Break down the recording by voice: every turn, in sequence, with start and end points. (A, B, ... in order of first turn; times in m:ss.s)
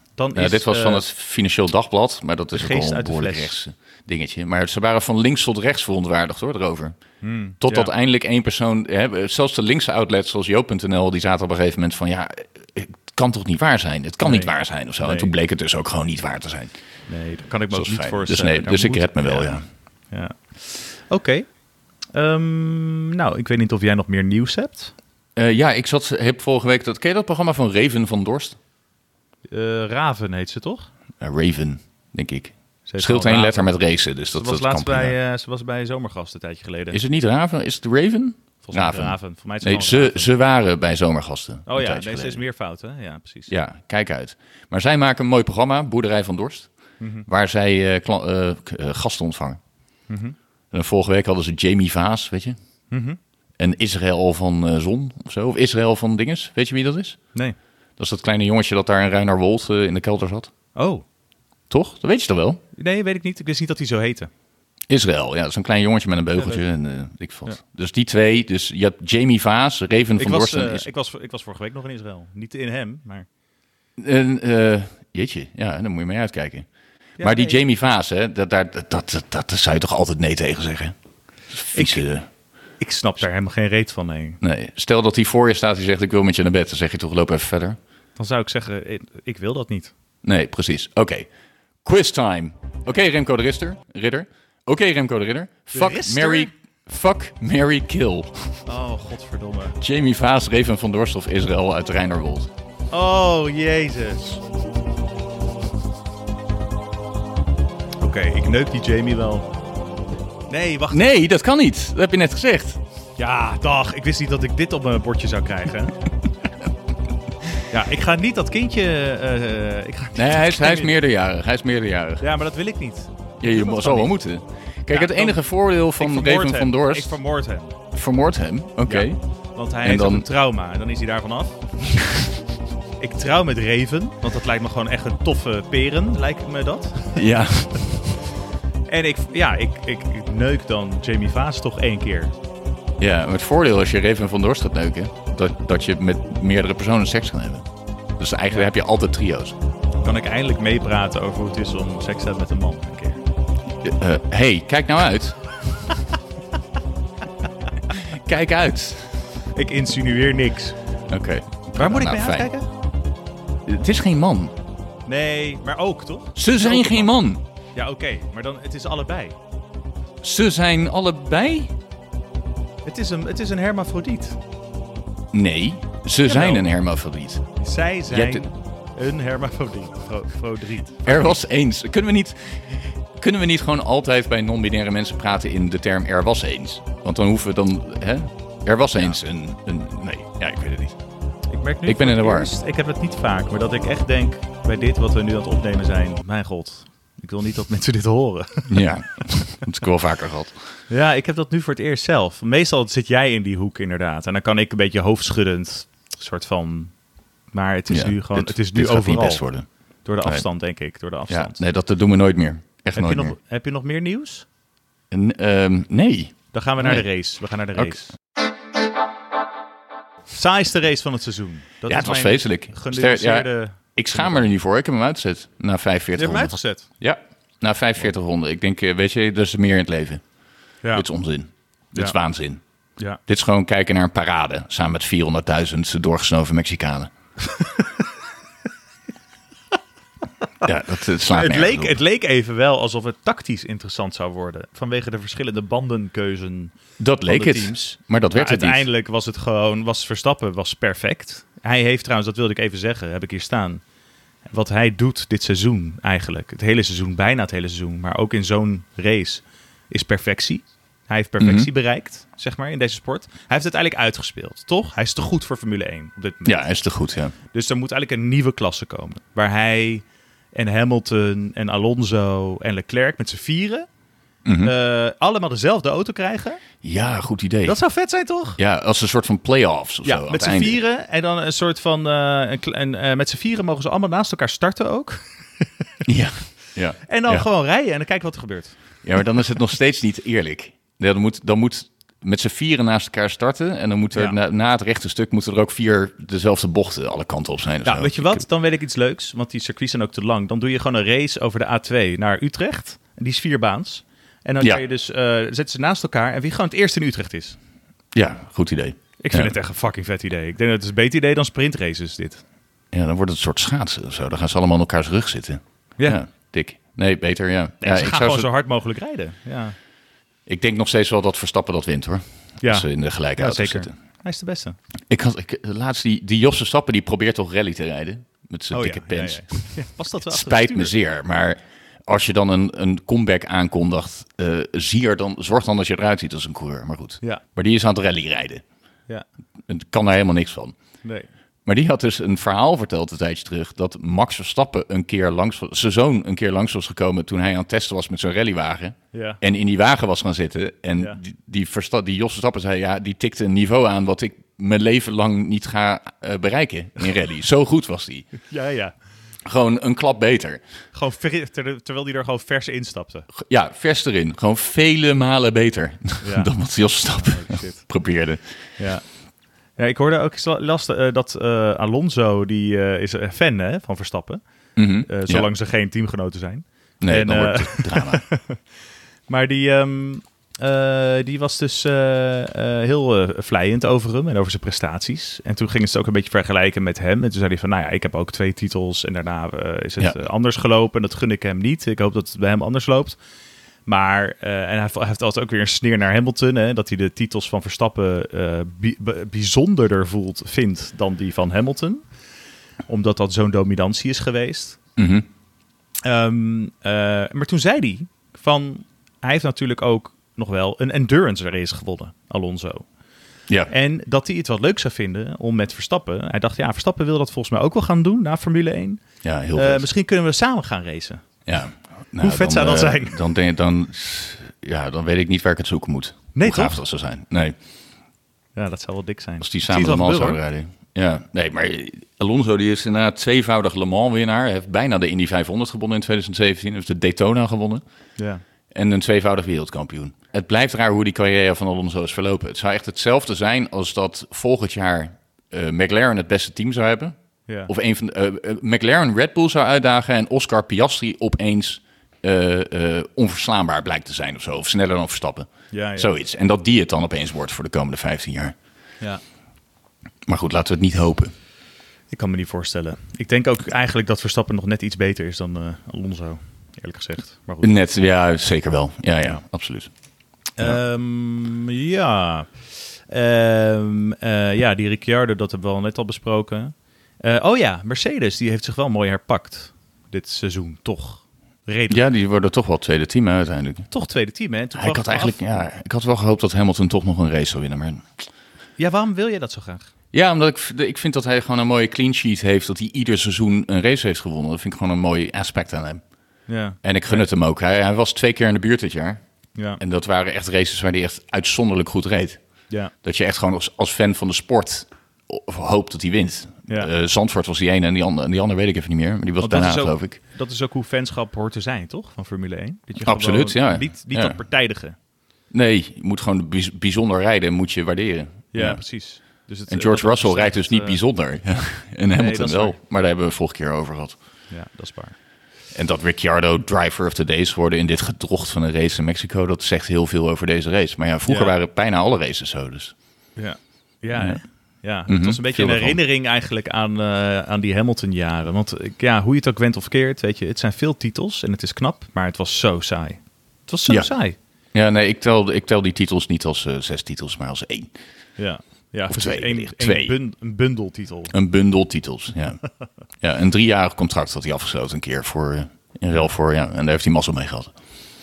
0:00.2-0:01.0 A
0:00.3-0:07.0 B
0:02.5-0:03.5 A
0:07.2-0:07.9 A
0:07.6-0:16.7 B
0:14.2-0:15.3 A
0:17.1-0:19.6 A
0:17.7-0:19.6 B
0:20.1-0:21.4 A
0:22.1-0:24.9 A
0:25.4-0:28.6 B
0:29.5-0:30.9 A
0:31.2-0:35.1 B
0:32.9-0:33.7 A
0:34.3-0:37.0 A
0:36.9-0:42.4 B
0:38.6-0:40.3 A
0:41.7-0:43.5 A
0:43.5-0:46.7 B
0:47.0-0:47.3 A
0:47.3-0:49.6 B
0:50.1-0:50.4 A
0:50.7-0:52.6 B
0:52.9-0:53.2 A
0:53.6-0:57.2 B
0:58.0-1:00.5 B
1:00.7-1:01.0 A
1:01.7-1:02.6 B
1:02.7-1:04.3 A
1:04.9-1:10.9 B
1:06.4-1:06.6 A
1:10.2-1:13.3 A
1:14.0-1:16.7 B
1:17.2-1:17.6 A
1:17.2-1:20.9 B
1:21.5-1:22.3 B
1:21.7-1:22.0 A
1:22.8-1:24.4 A
1:24.4-1:27.8 B
1:28.2-1:29.9 A
1:30.2-1:31.3 B
1:31.8-1:38.6 B
1:35.7-1:36.5 A
1:38.6-1:39.8 A
1:39.8-1:42.5 B
1:42.9-1:44.4 A
1:48.0-1:49.5 A
1:50.5-1:51.0 A
1:50.9-1:52.8 B
1:53.2-1:56.0 A
1:57.7-2:00.9 A
2:00.2-2:02.2 B
2:02.2-2:04.1 A
2:03.4-2:07.1 B
2:04.9-2:05.4 A
2:05.9-2:07.8 A
2:07.9-2:09.2 B
2:08.8-2:11.6 A
2:09.8-2:10.2 B
2:13.0-2:17.2 A
2:17.1-2:18.1 B
2:18.9-2:22.3 A
2:23.0-2:29.5 B
2:30.0-2:33.2 A
2:33.8-2:35.4 B
2:37.9-2:39.2 B
2:39.5-2:40.8 A
2:41.1-2:42.5 B
2:41.8-2:42.7 A
2:43.6-2:44.5 B
2:45.0-2:47.1 A
2:46.4-2:47.4 B
2:47.7-2:49.4 A
2:50.2-2:51.7 B
2:52.8-2:54.4 A
2:55.3-2:57.4 B
2:56.2-2:56.7 A
2:57.6-3:01.3 A
2:58.1-2:58.5 B
3:01.0-3:11.0 B
3:11.5-3:18.9 A
3:11.8-3:12.5 B
3:18.7-3:20.6 B
3:20.9-3:26.9 A
3:27.5-3:29.4 A
3:27.9-3:29.6 B
3:30.0-3:31.6 A
3:31.3-3:33.3 B
3:32.9-3:34.4 A
3:35.1-3:37.1 B
3:36.5-3:38.1 A
3:40.3-3:44.5 A
3:41.9-3:50.2 B
3:46.2-3:46.9 A
3:50.9-3:52.6 B
3:53.3-3:57.1 B
3:57.5-3:57.9 A
4:00.6-4:02.0 B
4:01.3-4:06.7 A
4:07.0-4:08.8 B
4:07.2-4:13.8 A
4:14.5-4:26.7 A
4:21.4-4:21.7 B
4:26.4-4:27.3 B
4:27.5-4:33.9 A
4:34.4-4:34.7 B
4:34.6-4:36.6 A
4:36.8-4:37.8 B
4:37.6-4:38.6 A
4:38.6-4:40.8 B
4:40.0-4:45.7 A
4:46.0-4:47.4 B
4:47.1-4:48.8 A
4:49.0-4:58.4 B
4:57.8-5:07.6 A
5:08.1-5:09.5 B
5:09.2-5:12.4 A
5:12.9-5:18.5 B
5:17.8-5:19.8 A
5:20.5-5:23.9 B
5:22.6-5:24.8 A
5:25.1-5:29.7 B
5:28.7-5:30.9 A
5:30.2-5:38.6 B
5:39.7-5:40.7 B
5:41.6-5:58.3 B
5:49.1-5:49.4 A
5:58.4-5:58.9 A
5:59.4-6:00.6 B
6:00.9-6:03.3 A
6:03.3-6:08.4 B
6:06.2-6:06.5 A
6:07.1-6:07.9 A
6:08.8-6:09.0 A
6:09.8-6:14.4 A
6:14.8-6:15.5 B
6:15.0-6:18.6 A
6:17.0-6:18.2 B
6:19.3-6:33.2 A
6:33.8-6:42.0 A
6:42.9-6:44.8 A
6:45.0-6:45.2 B
6:46.0-6:52.9 A
6:53.7-7:01.2 A
6:59.2-6:59.9 B
7:01.4-7:07.6 B
7:02.2-7:03.2 A
7:06.3-7:06.8 A
7:08.5-7:10.4 A
7:09.4-7:17.8 B
7:18.2-7:18.4 A
7:18.7-7:27.1 B
7:27.7-7:38.5 B
7:35.7-7:36.1 A
7:40.3-7:41.3 B
7:42.1-7:47.7 A
7:47.6-7:49.9 B
7:50.6-7:52.5 A
7:53.1-8:02.0 A
8:01.9-8:03.9 B
8:03.9-8:05.6 A
8:04.8-8:08.1 B
8:08.8-8:09.9 A
8:10.1-8:16.0 B
8:16.5-8:17.2 A
8:16.8-8:19.2 B
8:19.8-8:22.4 B
8:23.0-8:30.2 B
8:29.4-8:35.0 A
8:33.0-8:34.4 B
8:35.5-8:38.8 B
8:38.5-8:41.0 A
8:39.4-8:44.2 B
8:42.1-8:42.8 A
8:44.5-8:45.1 A
8:45.7-8:52.9 B
8:51.2-8:51.5 A
8:53.4-9:04.4 A
8:54.1-8:54.4 B
8:55.1-8:56.0 B
9:04.7-9:07.9 B
9:08.4-9:11.3 A
9:09.1-9:10.1 B
9:11.3-9:12.6 B
9:13.2-9:17.7 B